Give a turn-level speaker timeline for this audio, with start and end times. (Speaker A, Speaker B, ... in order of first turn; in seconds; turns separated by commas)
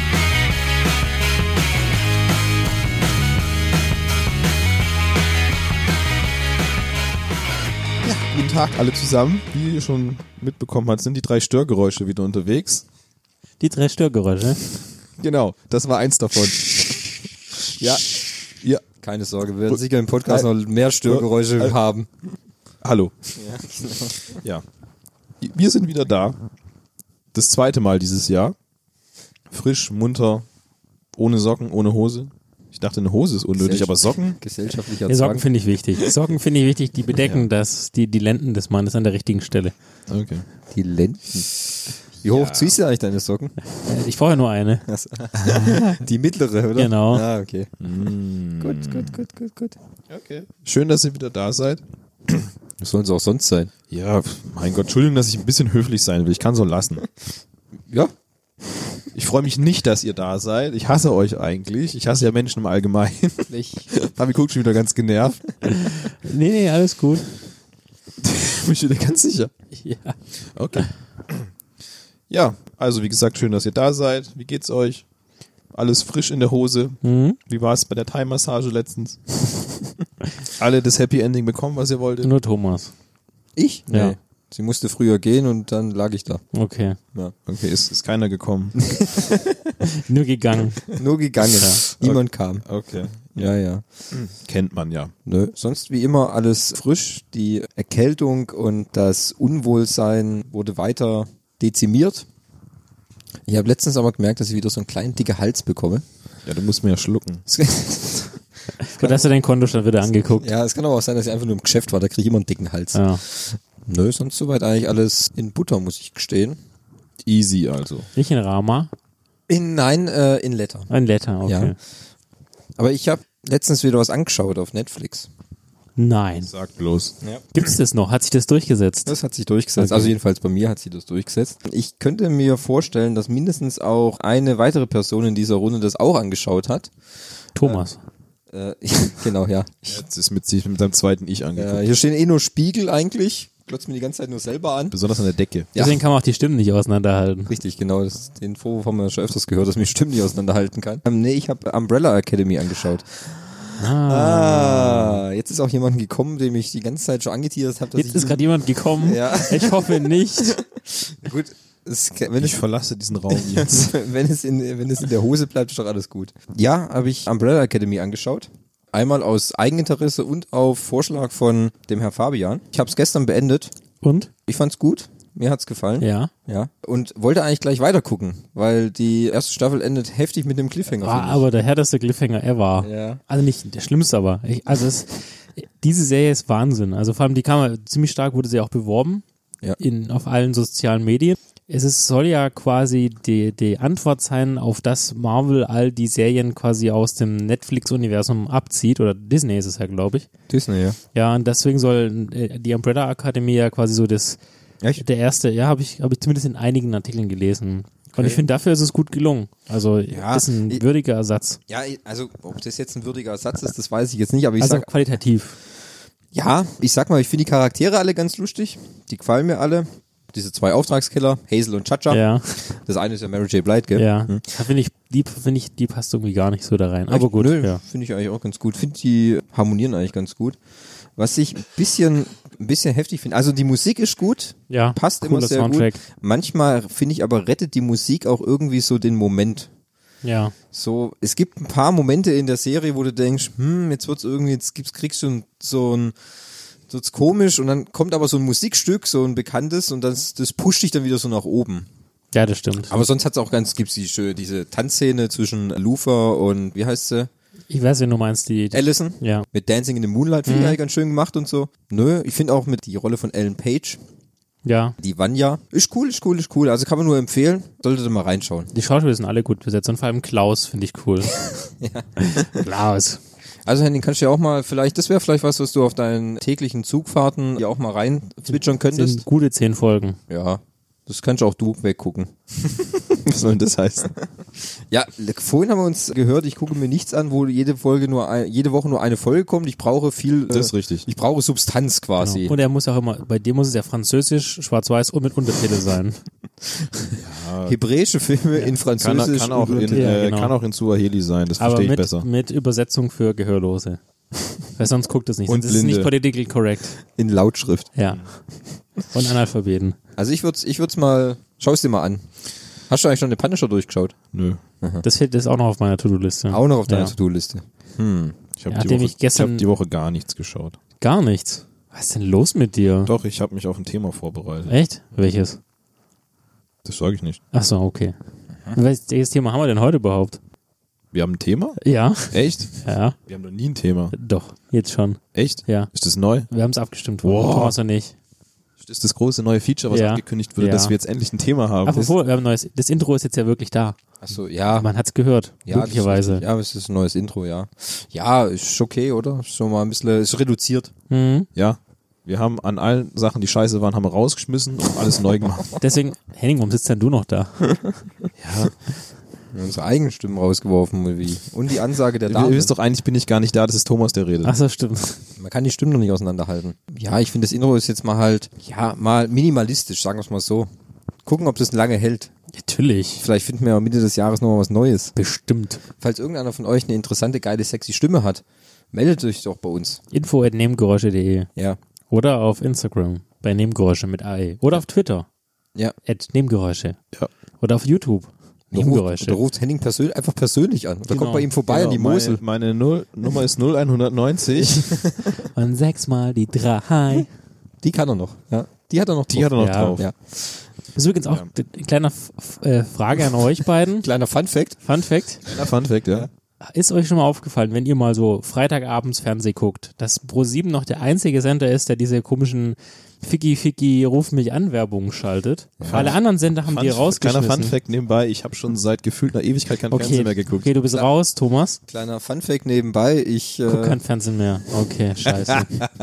Speaker A: 8.0-12.8, Speaker B: 13.6-14.7, Speaker A: 15.2-17.0, Speaker A: 17.8-18.8, Speaker C: 19.0-22.1, Speaker A: 19.7-20.5, Speaker A: 21.1-21.7, Speaker A: 22.8-23.2, Speaker C: 23.4-24.4, Speaker A: 24.4-24.6, Speaker A: 25.4-26.4, Speaker A: 27.3-28.6, Speaker A: 29.5-30.4, Speaker A: 31.1-34.4, Speaker C: 33.5-35.5, Speaker B: 35.1-39.7, Speaker A: 37.2-37.5, Speaker A: 40.1-40.5, Speaker C: 40.7-41.6, Speaker C: 42.2-43.5, Speaker A: 42.2-42.8, Speaker B: 43.8-44.8, Speaker C: 44.9-47.7, Speaker B: 46.8-47.2, Speaker A: 47.8-49.1, Speaker C: 48.6-49.8, Speaker A: 50.1-52.5, Speaker C: 52.8-53.7, Speaker A: 53.9-57.1, Speaker A: 59.1-65.8, Speaker C: 63.5-63.9, Speaker B: 65.7-67.2, Speaker A: 68.2-69.5, Speaker B: 69.8-70.2, Speaker A: 70.5-71.5, Speaker A: 72.3-75.0, Speaker A: 75.7-79.5, Speaker B: 77.0-77.4, Speaker A: 80.5-82.3, Speaker B: 82.2-82.9, Speaker C: 83.6-86.4, Speaker B: 83.9-84.1, Speaker B: 86.5-87.0, Speaker A: 87.5-88.8, Speaker C: 88.8-89.8, Speaker B: 89.8-91.0, Speaker C: 90.9-92.6, Speaker B: 91.5-91.8, Speaker A: 92.0-93.5, Speaker C: 93.3-93.8, Speaker A: 94.1-95.1, Speaker C: 95.2-102.2, Speaker C: 103.5-106.0, Speaker A: 106.5-107.4, Speaker C: 107.5-108.4, Speaker B: 108.8-110.5, Speaker C: 108.9-109.2, Speaker C: 110.4-116.6, Speaker B: 112.9-113.2, Speaker A: 117.2-118.1, Speaker B: 118.1-118.9, Speaker C: 119.5-120.9, Speaker B: 120.9-121.8, Speaker C: 121.5-121.7, Speaker C: 122.8-125.3, Speaker B: 126.0-126.5, Speaker A: 126.4-127.2, Speaker B: 127.5-129.2, Speaker C: 129.1-136.9, Speaker B: 129.8-130.1, Speaker B: 137.6-138.0, Speaker C: 137.6-137.8, Speaker C: 138.5-140.0, Speaker A: 139.9-141.8, Speaker C: 141.6-144.9, Speaker A: 144.9-145.7, Speaker C: 145.7-146.0, Speaker B: 145.8-147.5, Speaker C: 147.5-158.4, Speaker B: 153.8-155.2, Speaker B: 157.9-160.6, Speaker C: 159.0-162.6, Speaker A: 162.4-163.9, Speaker C: 163.3-173.7, Speaker B: 174.0-174.3, Speaker C: 174.5-181.4, Speaker B: 176.0-176.3, Speaker B: 181.0-189.2, Speaker C: 182.8-183.2, Speaker B: 189.8-200.3, Speaker C: 200.5-201.0, Speaker B: 201.1-204.4, Speaker B: 205.0-211.6, Speaker C: 208.1-208.4, Speaker C: 210.1-210.8, Speaker C: 211.7-214.9, Speaker B: 214.6-215.6, Speaker C: 216.3-224.5, Speaker B: 222.1-222.6, Speaker B: 223.9-227.8, Speaker C: 227.1-230.6, Speaker C: 231.2-239.7, Speaker B: 234.7-236.0, Speaker B: 240.2-240.5, Speaker C: 240.7-246.1, Speaker C: 246.9-251.9, Speaker B: 252.3-253.0, Speaker C: 252.8-257.3, Speaker B: 257.7-259.4, Speaker C: 258.7-264.0, Speaker B: 260.5-260.8, Speaker B: 264.6-264.9, Speaker C: 265.0-268.7, Speaker B: 268.7-271.3, Speaker C: 271.4-272.6, Speaker B: 272.2-273.2, Speaker C: 273.6-279.2, Speaker B: 278.5-280.2, Speaker C: 280.3-282.3, Speaker A: 283.0-284.1, Speaker C: 284.9-292.5, Speaker A: 290.5-291.1, Speaker B: 292.2-296.2, Speaker C: 296.8-300.1, Speaker A: 297.2-297.8, Speaker A: 299.0-302.3, Speaker B: 299.9-300.5, Speaker B: 301.6-304.0, Speaker B: 304.7-307.0, Speaker A: 305.5-306.1, Speaker C: 307.2-307.9, Speaker B: 307.9-308.4, Speaker B: 309.0-310.0, Speaker C: 310.2-312.2, Speaker C: 312.9-314.1, Speaker A: 314.3-314.6, Speaker B: 315.0-317.1, Speaker C: 316.5-318.4, Speaker A: 318.6-320.8, Speaker B: 318.7-319.6, Speaker B: 321.0-323.1, Speaker A: 323.0-324.7, Speaker B: 324.7-325.6, Speaker A: 326.8-327.4, Speaker B: 327.5-328.1, Speaker B: 328.7-330.4, Speaker A: 331.1-331.8, Speaker B: 331.8-333.1, Speaker A: 332.3-332.7, Speaker A: 333.3-334.1, Speaker B: 334.1-335.9, Speaker A: 335.3-336.5, Speaker B: 336.5-338.1, Speaker A: 337.2-337.8, Speaker A: 338.8-342.0, Speaker B: 339.9-340.9, Speaker B: 341.8-344.0, Speaker C: 344.2-344.9, Speaker B: 344.7-346.4, Speaker C: 345.6-350.9, Speaker B: 351.1-351.5, Speaker A: 351.5-355.7, Speaker B: 355.8-357.8, Speaker A: 358.4-358.7, Speaker C: 359.5-362.7, Speaker A: 362.3-364.5, Speaker B: 364.4-365.2, Speaker C: 365.4-370.7, Speaker C: 371.2-372.3, Speaker B: 372.6-373.2, Speaker C: 373.2-375.1, Speaker B: 375.1-375.8, Speaker C: 376.0-380.0, Speaker B: 380.1-381.5, Speaker B: 382.1-385.3, Speaker B: 386.1-387.0, Speaker B: 387.6-389.4, Speaker C: 388.7-392.4, Speaker B: 391.1-391.5, Speaker A: 391.7-395.0, Speaker C: 394.8-395.4, Speaker B: 395.4-397.3, Speaker C: 397.8-400.1, Speaker A: 399.3-400.0, Speaker B: 399.6-400.0, Speaker B: 400.9-404.1, Speaker C: 404.0-404.8, Speaker B: 404.8-405.4, Speaker A: 405.4-406.3, Speaker B: 406.6-417.8, Speaker C: 415.8-416.1, Speaker A: 415.8-420.7, Speaker B: 419.9-421.8, Speaker C: 421.9-424.0, Speaker B: 423.7-425.8